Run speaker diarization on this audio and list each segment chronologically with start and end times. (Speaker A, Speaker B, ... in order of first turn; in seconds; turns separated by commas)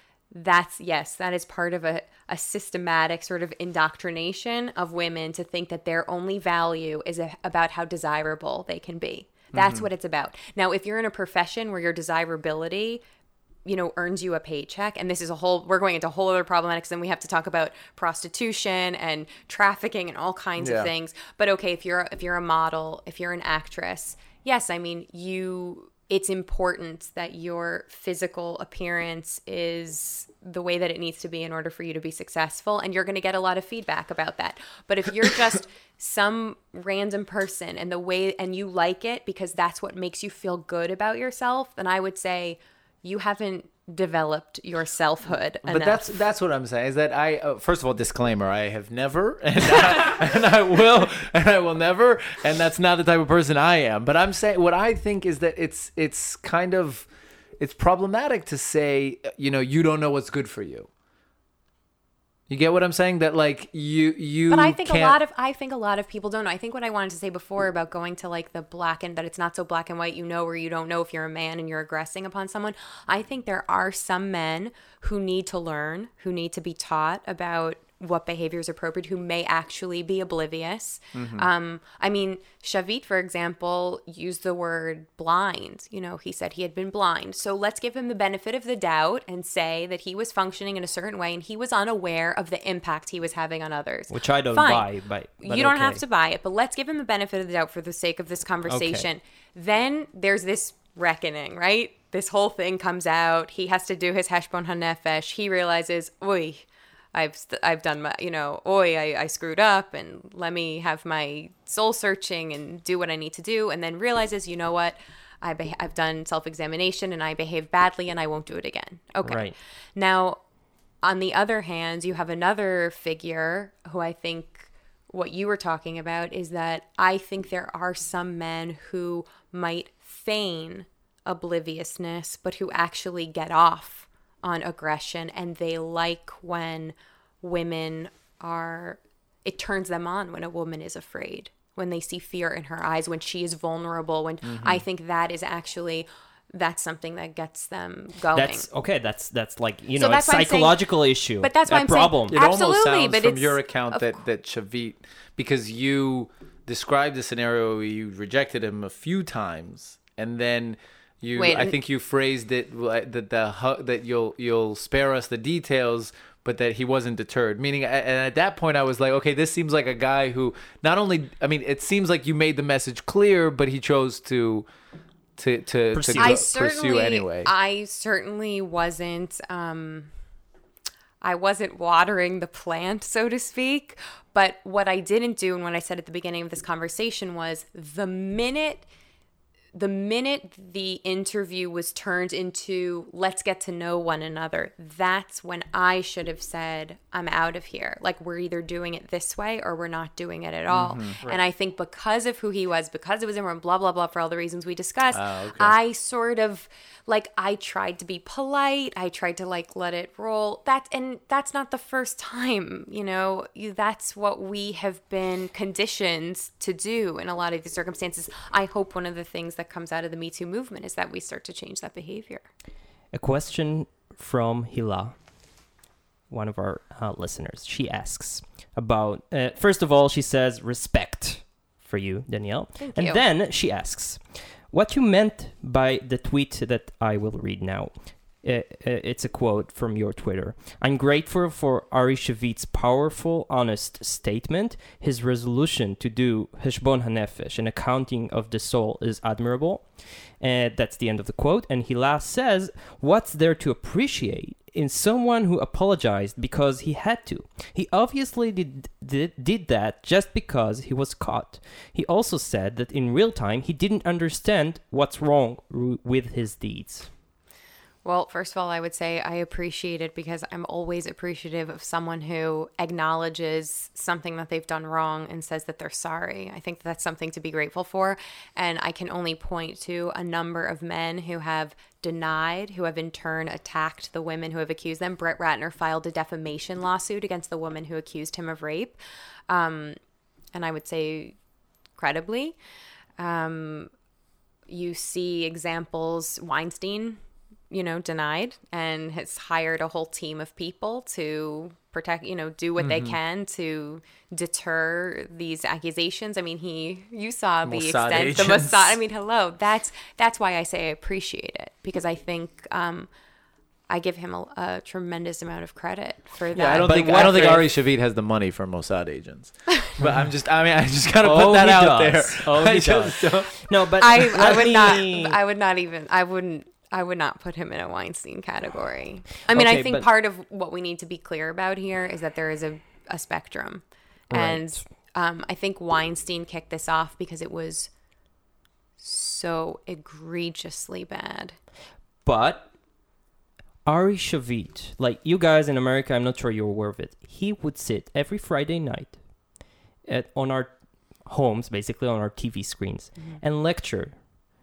Speaker A: 0.3-13.0, Speaker B: 9.5-9.9, Speaker A: 13.6-46.1, Speaker B: 20.6-20.9, Speaker B: 45.6-57.1, Speaker B: 57.6-60.9, Speaker B: 62.5-65.2, Speaker A: 64.5-120.4, Speaker B: 81.1-81.5, Speaker C: 94.1-96.0, Speaker C: 98.7-99.0, Speaker C: 119.2-119.5, Speaker A: 121.0-148.7, Speaker B: 144.4-144.8, Speaker C: 148.3-152.3, Speaker A: 150.0-150.8, Speaker A: 151.4-154.2, Speaker B: 152.3-174.7, Speaker A: 161.3-161.8, Speaker B: 175.4-177.5, Speaker C: 175.9-176.3, Speaker A: 176.2-180.1, Speaker A: 181.2-188.8, Speaker A: 189.7-222.4, Speaker B: 200.7-201.2, Speaker B: 205.1-205.7, Speaker C: 223.1-225.1, Speaker C: 226.3-249.9, Speaker A: 232.8-233.2, Speaker C: 250.4-267.1, Speaker A: 268.0-289.0, Speaker A: 289.5-290.0, Speaker A: 290.5-291.4, Speaker A: 292.0-292.6, Speaker A: 293.2-293.9, Speaker A: 294.7-313.1, Speaker B: 302.8-303.2, Speaker B: 307.6-309.0, Speaker A: 313.9-317.6, Speaker B: 316.5-323.6, Speaker C: 316.8-317.6, Speaker C: 321.2-325.4, Speaker A: 324.0-337.9, Speaker B: 324.3-324.7, Speaker C: 329.5-330.1, Speaker C: 334.3-334.8, Speaker A: 339.0-341.6, Speaker C: 342.2-342.7, Speaker C: 343.9-349.2, Speaker C: 350.0-350.7, Speaker C: 351.2-354.2